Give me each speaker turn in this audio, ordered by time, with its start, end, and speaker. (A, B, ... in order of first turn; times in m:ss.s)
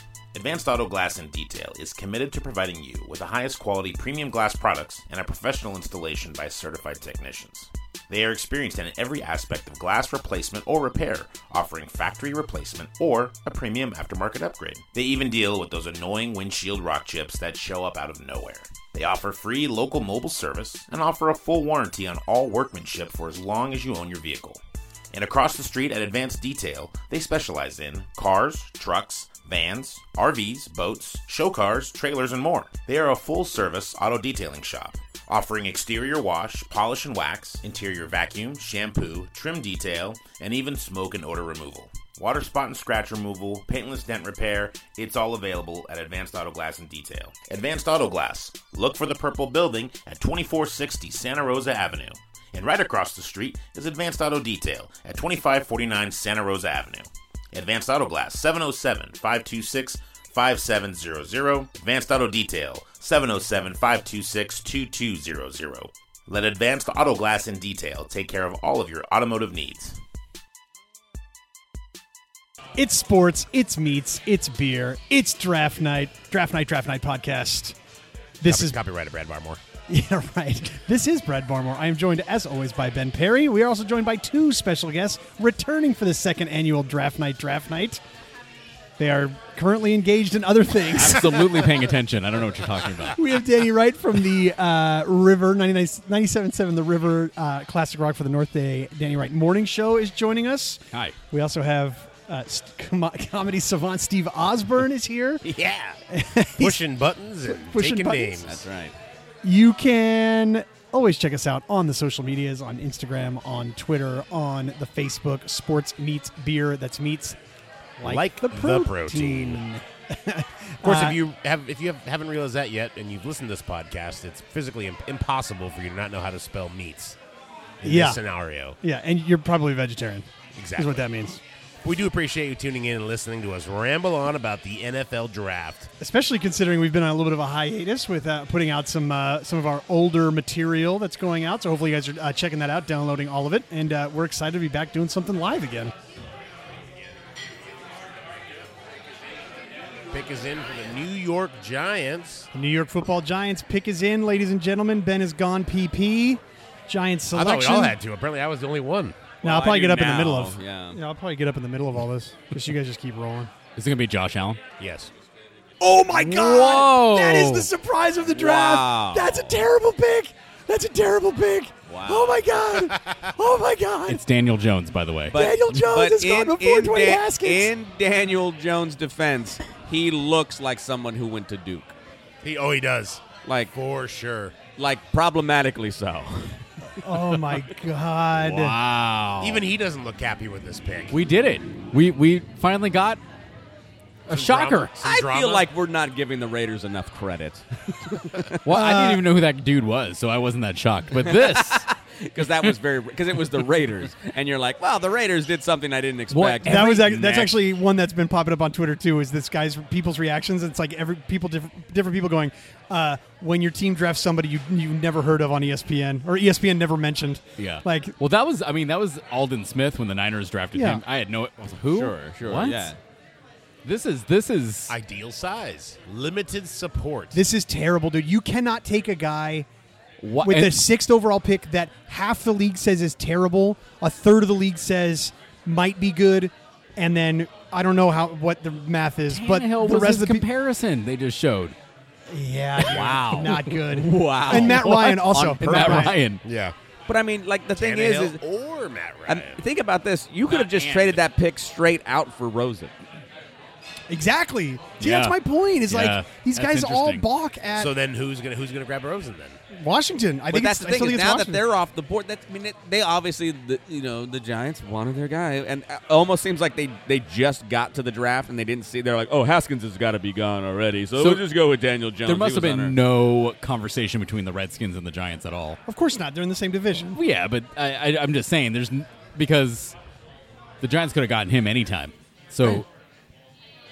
0:00.3-0:24.6 A
0:25.1-1:10.0 A
1:12.8-1:17.8 B
1:18.4-1:18.7 B
1:18.4-1:19.6 C
1:19.9-1:28.0 B
1:29.0-1:31.5 B
1:30.8-1:33.3 D
1:33.1-1:45.4 B
1:45.4-1:46.0 C
1:46.1-1:46.8 B
1:46.6-1:48.6 C
1:47.4-1:48.4 B
1:48.4-1:48.9 E
1:49.4-1:57.4 B
1:58.0-2:01.2 B
1:58.0-1:59.6 C
2:00.8-2:07.2 C
2:07.8-2:08.8 C
2:07.8-2:08.2 B
2:08.8-2:11.4 B
2:10.5-2:11.0 C
2:11.8-2:15.9 C
2:16.0-2:25.9 B
2:30.1-2:32.5 C
2:32.5-2:37.9 B
2:37.3-2:39.2 C
2:39.4-2:41.0 E
2:39.4-2:43.5 B
2:43.8-2:44.6 D
2:44.8-2:45.1 C
2:45.8-2:54.2 B
2:46.2-2:46.9 D
2:46.3-2:47.6 E
2:48.3-2:49.6 E
2:51.9-2:52.4 E
2:52.8-2:53.3 C
2:54.1-2:55.4 D
2:55.3-3:02.0 E
2:55.3-2:57.7 B
3:02.4-3:04.6 C
3:03.4-3:03.7 E
3:04.8-3:06.6 E
3:07.0-3:08.8 B
3:08.4-3:09.6 D
3:09.4-3:11.1 C
3:11.1-3:13.2 D
3:14.3-3:14.9 D
3:14.3-3:15.6 C
3:15.0-3:18.6 E
3:18.6-3:21.9 D
3:18.7-3:19.2 B
3:21.2-3:27.5 E
3:22.4-3:22.7 D
3:26.3-3:27.1 D
3:26.6-3:38.2 B
3:37.6-3:42.9 D
3:40.7-3:41.0 B
3:41.9-3:43.0 E
3:43.8-3:44.9 D
3:44.9-3:47.4 C
3:47.3-3:49.7 B
3:50.2-3:50.8 D
3:50.4-4:00.4 B
3:59.3-4:01.8 D
4:02.3-4:06.2 B
4:02.9-4:03.7 D
4:02.9-4:03.4 C
4:02.9-4:04.8 E
4:04.4-4:06.4 D
4:06.4-4:06.7 C
4:07.1-4:08.4 E
4:07.7-4:09.6 C
4:09.3-4:12.9 E
4:10.5-4:11.2 D
4:14.1-4:17.9 B
4:15.0-4:15.4 D
4:15.9-4:17.2 D
4:17.7-4:19.6 C
4:19.7-4:21.6 B
4:20.5-4:33.0 E
4:31.2-4:31.4 D
4:32.2-4:35.8 D
4:35.9-4:37.2 B
4:37.1-4:40.0 D
4:40.8-4:42.8 D